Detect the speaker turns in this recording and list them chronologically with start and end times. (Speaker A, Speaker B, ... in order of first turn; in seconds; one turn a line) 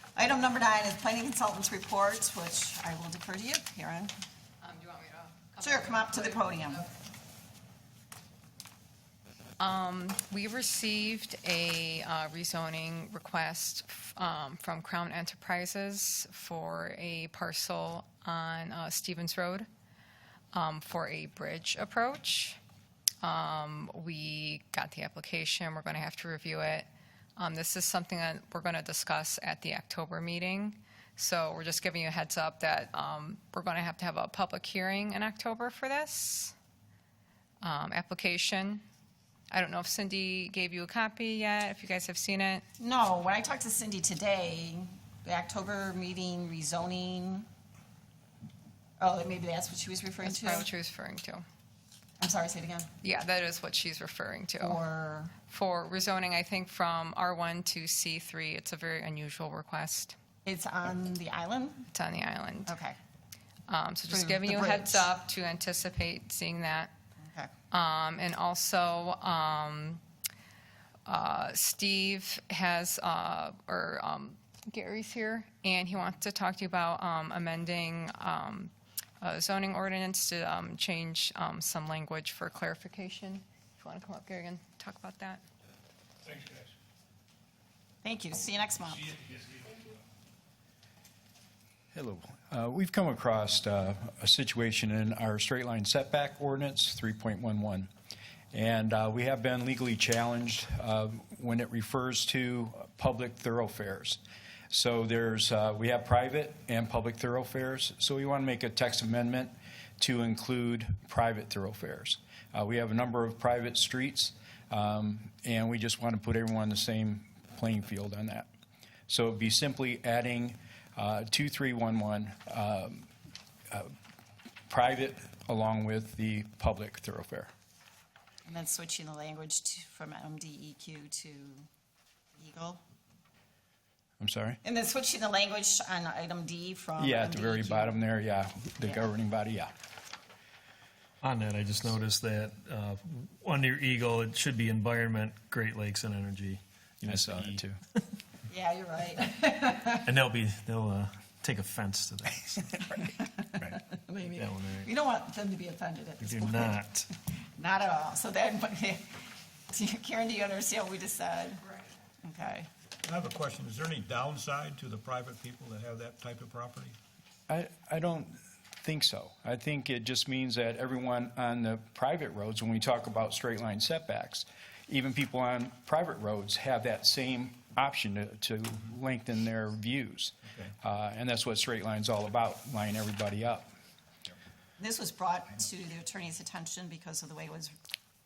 Speaker A: 0.1-4.1
Speaker B: 4.6-6.9
Speaker A: 5.6-6.8
Speaker B: 9.6-19.7
Speaker B: 20.5-22.6
Speaker B: 23.2-36.5
Speaker B: 37.6-38.8
Speaker B: 39.5-42.6
Speaker A: 42.8-47.5
Speaker A: 49.0-50.7
Speaker B: 50.2-51.4
Speaker A: 52.2-52.9
Speaker B: 53.0-54.8
Speaker A: 54.6-55.3
Speaker B: 55.4-60.1
Speaker A: 60.4-61.9
Speaker B: 61.9-62.7
Speaker A: 62.6-63.0
Speaker B: 63.7-66.9
Speaker A: 64.1-65.1
Speaker A: 67.2-67.5
Speaker B: 67.7-70.0
Speaker B: 71.0-85.4
Speaker A: 88.0-89.4
Speaker C: 91.9-97.9
Speaker C: 98.5-104.2
Speaker C: 104.7-118.5
Speaker C: 119.1-123.1
Speaker C: 123.7-123.9
Speaker C: 124.7-127.5
Speaker A: 128.4-131.7
Speaker A: 132.3-132.8
Speaker C: 134.2-134.6
Speaker A: 134.6-138.0
Speaker C: 137.0-139.7
Speaker D: 141.2-147.6
Speaker C: 147.0-147.8
Speaker A: 148.5-150.0
Speaker D: 149.9-152.8
Speaker A: 152.9-156.7
Speaker D: 154.3-154.9
Speaker D: 156.2-157.1
Speaker A: 157.6-161.6
Speaker B: 161.6-161.9
Speaker A: 162.2-162.7
Speaker E: 163.0-167.0
Speaker C: 167.5-183.7
Speaker E: 180.5-180.7
Speaker A: 184.8-187.7